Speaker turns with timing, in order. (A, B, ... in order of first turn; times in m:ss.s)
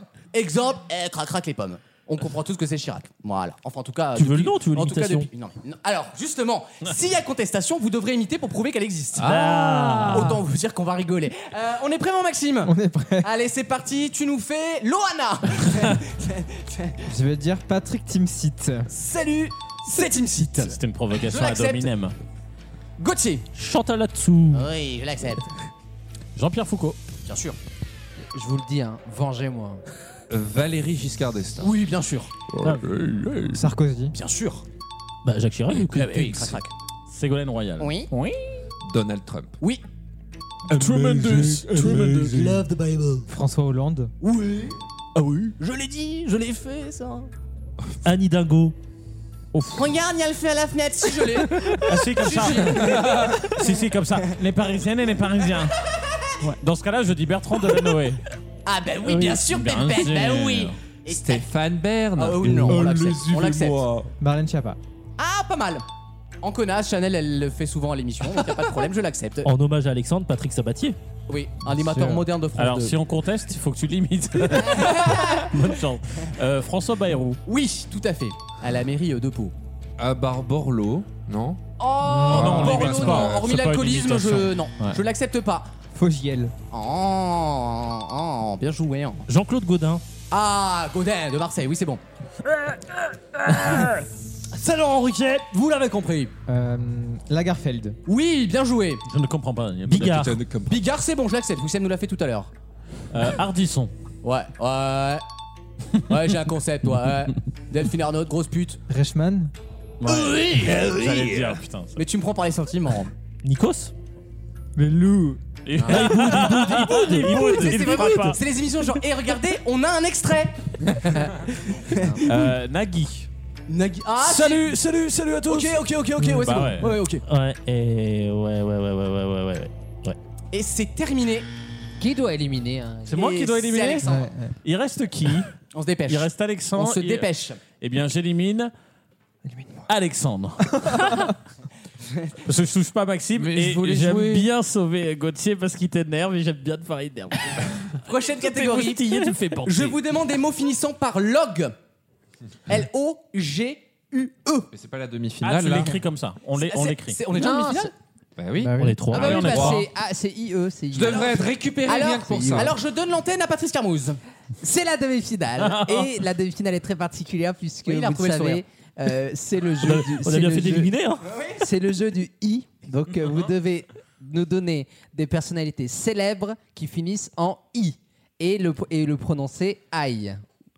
0:00.3-0:09.4 A
0:04.2-0:05.3 B
0:09.2-0:09.9 C
0:09.2-0:10.4 B
0:10.0-0:17.0 A
0:12.6-0:13.3 D
0:17.0-0:18.9 D
0:18.9-0:21.9 A
0:20.6-0:22.2 E
0:23.0-0:23.5 A
0:23.6-0:24.7 B
0:24.5-0:25.5 A
0:26.4-0:27.0 E
0:27.3-0:27.6 A
0:28.3-0:29.8 F
0:30.3-0:31.8 C
0:31.6-0:32.3 A
0:32.5-0:33.2 C
0:32.6-0:33.6 E
0:33.5-0:34.1 D
0:34.1-0:34.6 A
0:35.2-0:36.5 B
0:35.7-0:36.7 A
0:37.1-0:38.4 E
0:37.8-0:38.1 A
0:38.8-0:39.6 C
0:40.7-0:42.7 E
0:40.8-0:42.7 D
0:43.2-0:44.1 D
0:44.2-0:44.8 A
0:45.2-0:45.5 E
0:45.3-0:47.3 A
0:48.0-0:48.8 B
0:49.5-0:49.9 E
0:49.8-0:53.7 A
0:51.6-0:55.8 E
0:52.7-0:53.5 C
0:56.4-0:58.2 E
0:58.7-1:01.5 A
0:59.1-1:00.8 E
1:01.1-1:04.1 C
1:02.2-1:03.8 A
1:04.2-1:04.8 D
1:05.2-1:05.8 A
1:06.4-1:09.5 A
1:09.4-1:11.0 B
1:11.3-1:13.0 A
1:11.7-1:12.2 D
1:12.6-1:17.4 E
1:14.6-1:15.5 A
1:17.5-1:19.5 A
1:20.0-1:21.6 C
1:21.8-1:25.7 A
1:22.1-1:25.0 E
1:22.3-1:23.5 C
1:25.9-1:26.5 D
1:26.7-1:29.2 A
1:29.3-1:30.0 B
1:30.3-1:32.0 A
1:33.4-1:34.0 E
1:34.6-1:36.3 A
1:36.5-1:38.0 D
1:38.1-1:39.0 A
1:39.1-1:40.2 E
1:39.9-1:40.4 B
1:39.9-1:40.8 C
1:40.7-1:42.5 A
1:43.1-1:43.9 E
1:44.2-1:45.2 A
1:46.1-1:48.8 A
1:48.9-1:49.5 D
1:50.0-1:52.0 E
1:52.0-1:53.1 A
1:53.4-1:53.9 B
1:54.8-1:55.4 D
1:55.7-1:58.4 E
1:56.0-1:58.4 B
1:56.0-1:57.2 D
1:57.2-2:02.4 A
2:02.2-2:03.3 E
2:03.7-2:04.7 A
2:04.2-2:05.8 E
2:05.5-2:07.2 A
2:06.2-2:06.5 D
2:06.4-2:07.0 E
2:07.2-2:10.2 B
2:10.5-2:11.5 A
2:12.0-2:13.2 F
2:13.1-2:14.1 E
2:13.1-2:14.3 A
2:14.0-2:14.6 D
2:14.6-2:15.5 E
2:15.7-2:17.6 A
2:16.1-2:18.7 E
2:19.5-2:19.9 D
2:19.9-2:21.3 E
2:22.4-2:27.8 E
2:23.4-2:24.5 C
2:28.0-2:31.8 A
2:28.4-2:30.0 E
2:32.7-2:34.7 A
2:34.7-2:36.0 C
2:35.4-2:37.2 E
2:36.6-2:37.9 A
2:37.3-2:37.9 F
2:38.4-2:39.9 C
2:38.6-2:39.1 D
2:38.8-2:39.4 B
2:39.1-2:39.9 E
2:39.1-2:42.8 F
2:40.9-2:42.7 C
2:41.1-2:44.2 A
2:44.6-2:50.9 F
2:47.9-2:48.6 A
2:49.8-2:51.2 B
2:51.3-2:51.6 A
2:51.6-3:00.4 F